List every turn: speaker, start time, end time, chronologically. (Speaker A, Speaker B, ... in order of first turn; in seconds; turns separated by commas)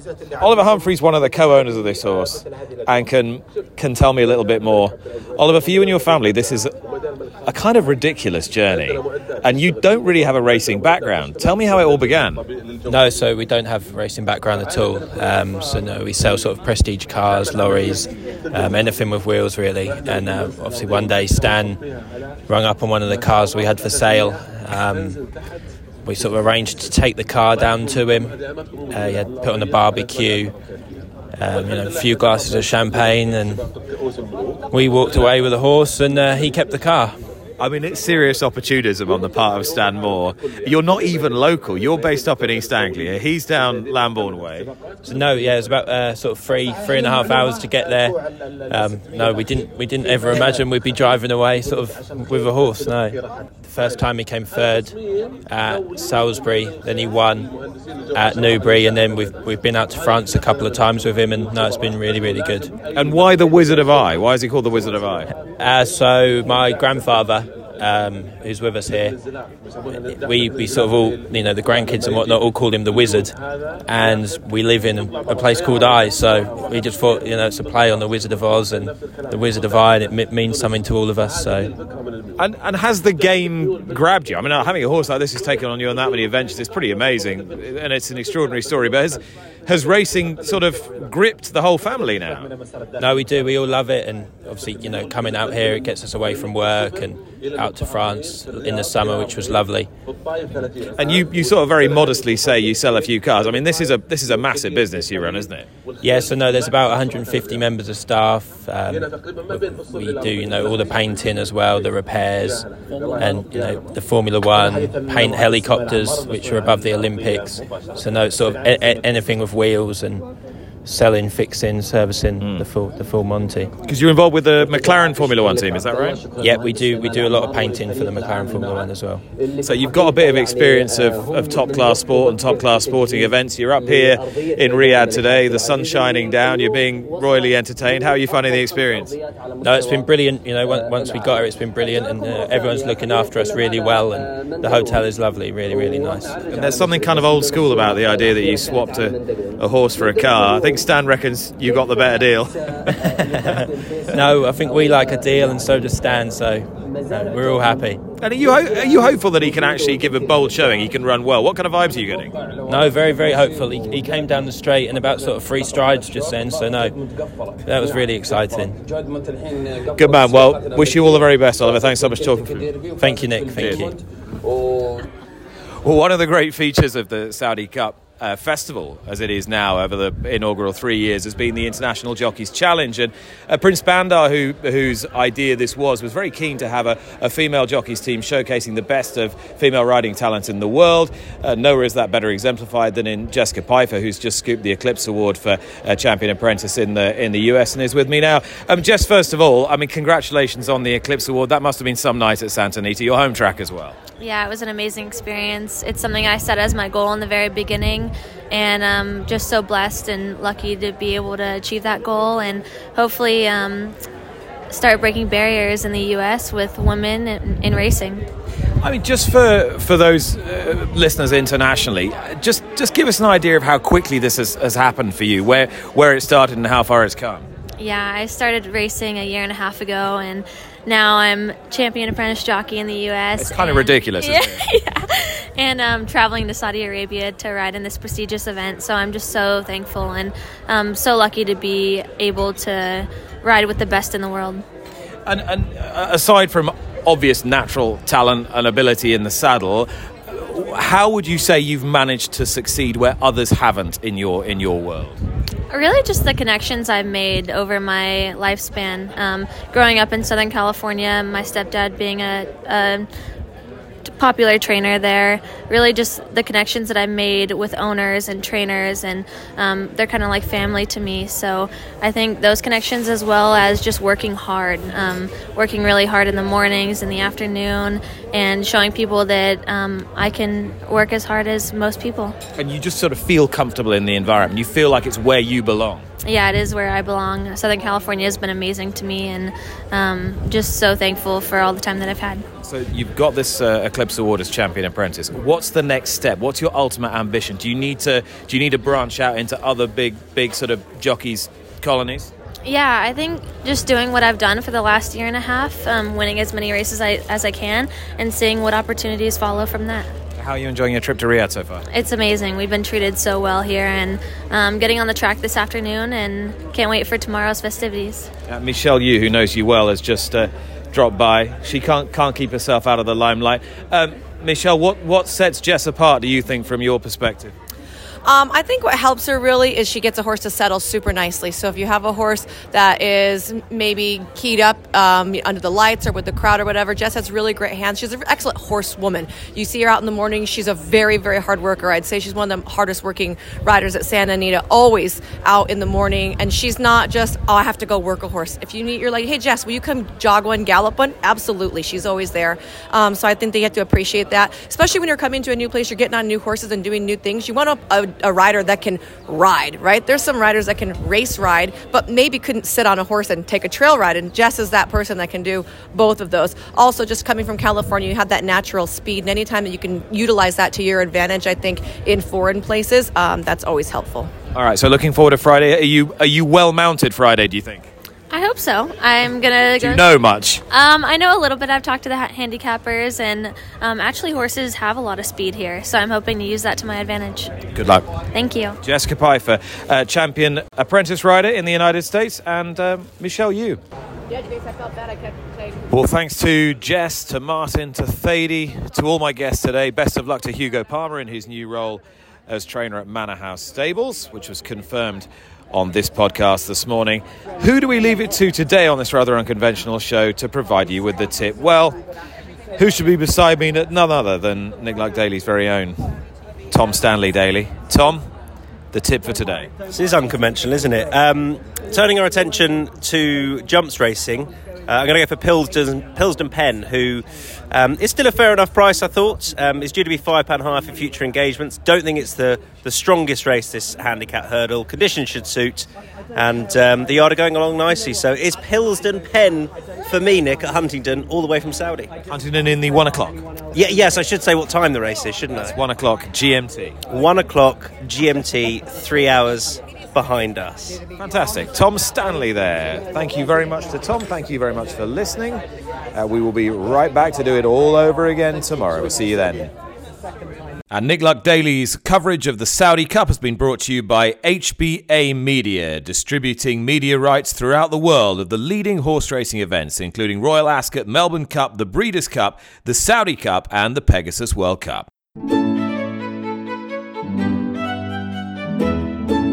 Speaker A: 0.4-6.7, Speaker A: 7.5-12.4, Speaker B: 12.9-21.8, Speaker B: 22.5-25.2, Speaker B: 26.0-28.4, Speaker B: 28.9-30.5, Speaker B: 31.4-33.6, Speaker B: 34.7-37.2, Speaker A: 37.6-44.7, Speaker B: 45.0-48.2, Speaker B: 48.7-55.0, Speaker B: 55.5-57.5, Speaker B: 58.1-62.7, Speaker A: 62.9-65.3, Speaker B: 65.6-69.2, Speaker B: 70.0-73.3, Speaker B: 73.9-81.7, Speaker A: 82.4-92.5, Speaker B: 93.0-99.9, Speaker A: 101.0-105.7, Speaker B: 106.0-112.6, Speaker B: 113.2-120.2, Speaker B: 120.8-123.7, Speaker A: 122.4-122.6, Speaker A: 123.8-126.2, Speaker B: 126.4-129.2, Speaker A: 129.6-139.2, Speaker B: 139.6-146.3, Speaker A: 146.5-152.6, Speaker B: 153.0-158.0, Speaker A: 158.2-162.3, Speaker B: 162.7-166.9, Speaker B: 167.6-168.8, Speaker A: 169.9-172.7, Speaker B: 173.0-173.9, Speaker A: 173.6-173.9, Speaker A: 175.8-204.0, Speaker C: 204.2-214.0, Speaker C: 214.7-218.2, Speaker A: 218.8-227.4, Speaker C: 227.8-244.6, Speaker A: 233.4-234.7, Speaker A: 245.2-255.2, Speaker C: 255.7-263.1, Speaker C: 264.0-282.4, Speaker A: 282.5-286.1, Speaker C: 286.2-292.4, Speaker A: 292.6-302.3, Speaker C: 302.6-310.1, Speaker A: 310.4-311.9, Speaker C: 311.9-318.3, Speaker A: 318.5-327.5, Speaker D: 328.2-374.3, Speaker A: 374.5-377.9, Speaker C: 378.3-380.1, Speaker A: 379.8-380.6, Speaker C: 380.7-387.5, Speaker A: 387.7-388.1, Speaker C: 388.3-388.8, Speaker A: 388.8-393.8, Speaker A: 395.9-412.0, Speaker A: 412.8-418.3, Speaker A: 418.9-419.7, Speaker E: 419.9-442.1, Speaker A: 442.3-443.4, Speaker E: 443.7-445.7, Speaker A: 445.6-447.0, Speaker E: 447.1-451.0, Speaker A: 451.2-455.6, Speaker A: 456.1-459.7, Speaker A: 460.9-475.1